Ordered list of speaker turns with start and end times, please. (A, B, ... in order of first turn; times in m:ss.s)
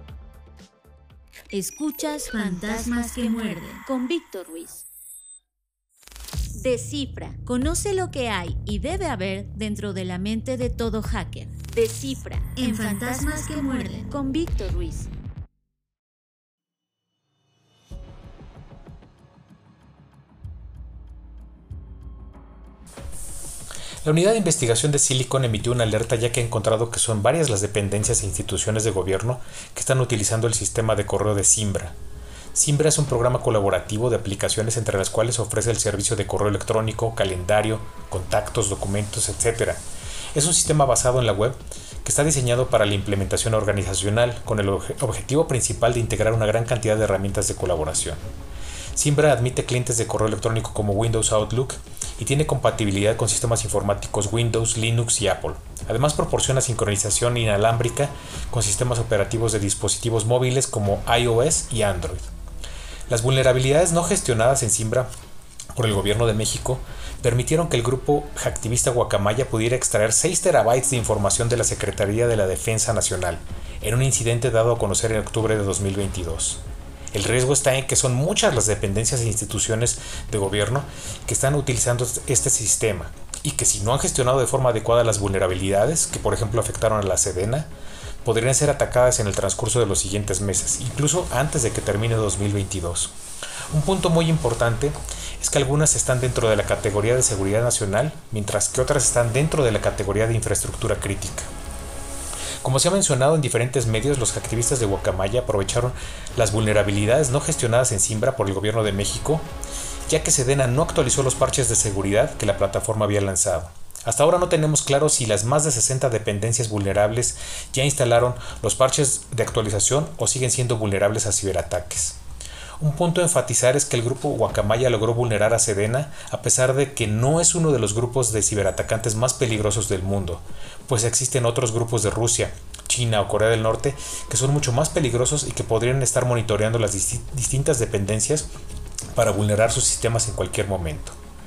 0:01.5-0:02.3 A
0:02.3-0:03.8 B
0:03.8-0:04.8 A
0:06.5-0:13.1 A
0:12.6-0:14.1 B
0:14.1-0:15.1 A
0:24.0-0:32.0 C
0:32.5-0:39.8 C
0:40.3-0:48.2 C
0:48.9-1:02.3 C
1:03.1-1:05.1 C
1:05.7-1:16.6 C
1:17.1-1:27.7 C
1:28.2-1:33.1 C
1:33.7-1:41.5 C
1:42.6-1:49.5 C
1:50.1-2:02.2 C
2:02.8-2:18.5 C
2:19.1-2:21.2 C